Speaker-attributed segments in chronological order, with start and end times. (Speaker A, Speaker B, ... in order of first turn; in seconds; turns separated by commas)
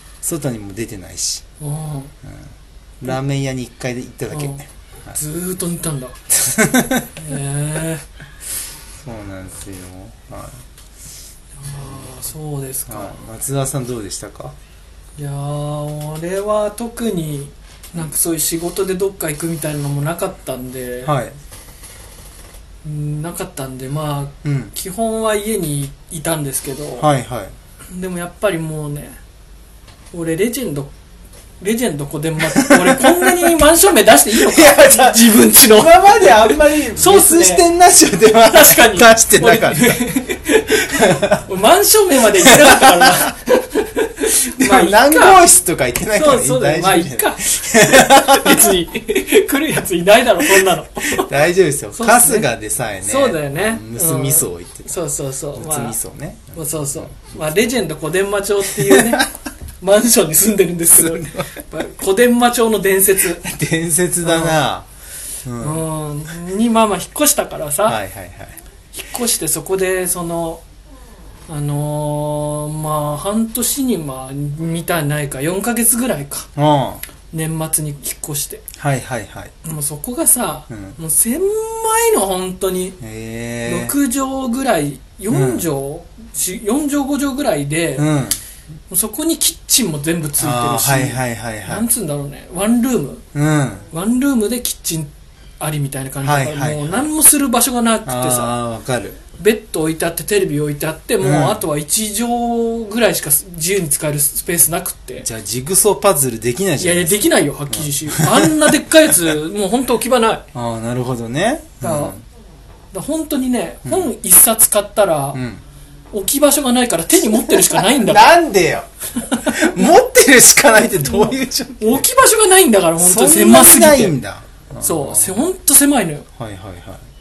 Speaker A: 0.2-1.4, Speaker B: 1.6-2.1, Speaker A: 2.2-5.2, Speaker B: 4.3-4.6, Speaker B: 5.1-6.2, Speaker A: 6.3-7.1, Speaker B: 7.1-8.1, Speaker A: 9.0-10.6, Speaker B: 11.6-13.2, Speaker A: 12.9-14.6, Speaker B: 15.2-21.1, Speaker A: 21.0-21.4, Speaker B: 22.8-27.1, Speaker A: 24.4-24.7, Speaker A: 27.0-27.5, Speaker B: 27.9-29.2, Speaker B: 30.1-30.9, Speaker B: 31.6-37.6, Speaker A: 32.5-33.5, Speaker A: 34.3-40.1, Speaker B: 38.5-45.4, Speaker A: 40.9-41.4, Speaker A: 42.4-43.3, Speaker A: 44.5-48.8, Speaker B: 46.1-51.3, Speaker A: 50.5-55.0, Speaker B: 52.0-52.5, Speaker B: 53.0-56.0, Speaker A: 55.5-57.6, Speaker B: 56.5-59.3, Speaker A: 58.7-59.3, Speaker B: 59.8-63.4, Speaker A: 60.9-61.6, Speaker A: 63.4-64.9, Speaker B: 64.2-64.6, Speaker A: 65.4-65.9, Speaker B: 65.6-68.0, Speaker A: 67.9-68.6, Speaker B: 68.9-70.6, Speaker B: 71.5-76.5, Speaker A: 76.6-77.0, Speaker B: 77.3-78.6, Speaker A: 78.8-79.5, Speaker B: 79.6-83.0, Speaker A: 80.7-81.0, Speaker A: 83.0-83.9, Speaker B: 83.6-88.1, Speaker A: 85.3-85.7, Speaker A: 88.0-88.4, Speaker B: 88.9-93.2, Speaker A: 90.4-91.9, Speaker A: 93.3-93.9, Speaker B: 93.9-98.6, Speaker A: 96.2-97.1, Speaker A: 98.0-99.2, Speaker B: 99.4-105.3, Speaker A: 101.2-101.6, Speaker A: 105.2-109.4, Speaker B: 106.8-110.4, Speaker A: 110.5-112.2, Speaker B: 111.8-112.2, Speaker B: 112.9-115.4, Speaker A: 113.8-114.1, Speaker A: 115.3-115.6, Speaker B: 116.1-118.4, Speaker A: 117.2-122.0, Speaker B: 119.2-119.9, Speaker B: 121.0-124.2, Speaker A: 123.0-125.5, Speaker B: 124.8-126.3, Speaker A: 126.4-127.0